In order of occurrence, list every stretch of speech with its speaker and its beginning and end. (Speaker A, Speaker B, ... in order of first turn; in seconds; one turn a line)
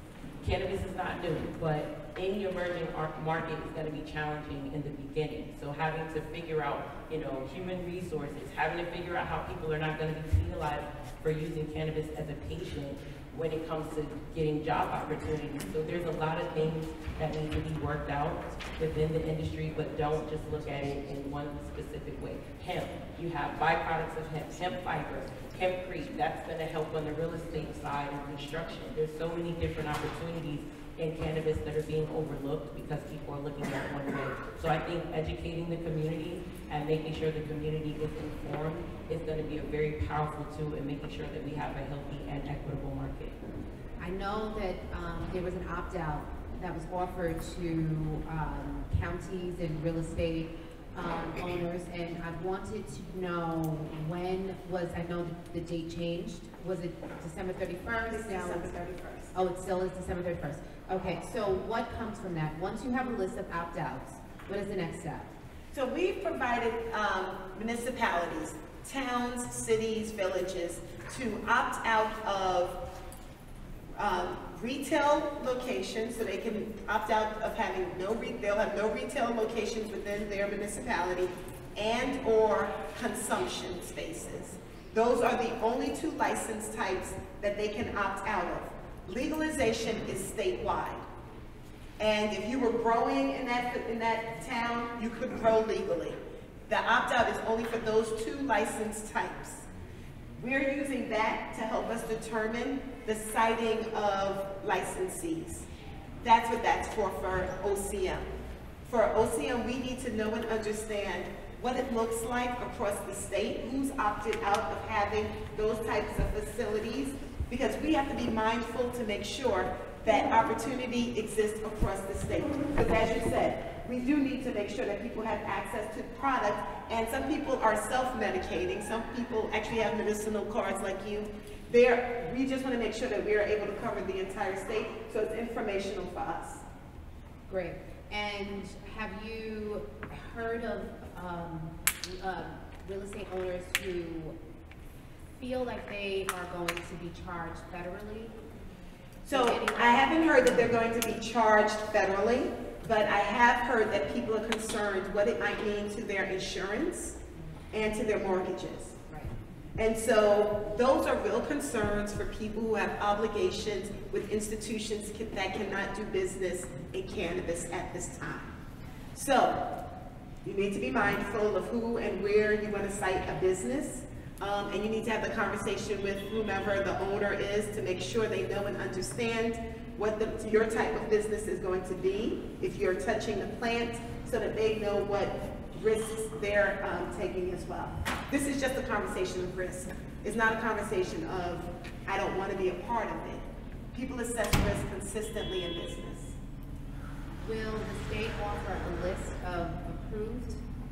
Speaker A: 0.4-43.4
Speaker B: 44.0-58.7
Speaker C: 58.0-59.3
Speaker B: 59.3-65.3
Speaker C: 65.7-72.8
Speaker C: 74.0-91.0
Speaker C: 92.0-99.7
Speaker C: 100.4-105.7
Speaker C: 106.2-108.3
Speaker C: 108.9-136.6
Speaker B: 137.5-144.3
Speaker B: 145.4-148.3
Speaker B: 149.3-150.7
Speaker C: 149.3-157.2
Speaker C: 157.7-159.0
Speaker B: 159.1-159.3
Speaker C: 159.8-168.5
Speaker C: 169.2-169.6
Speaker C: 170.4-196.3
Speaker B: 197.4-200.6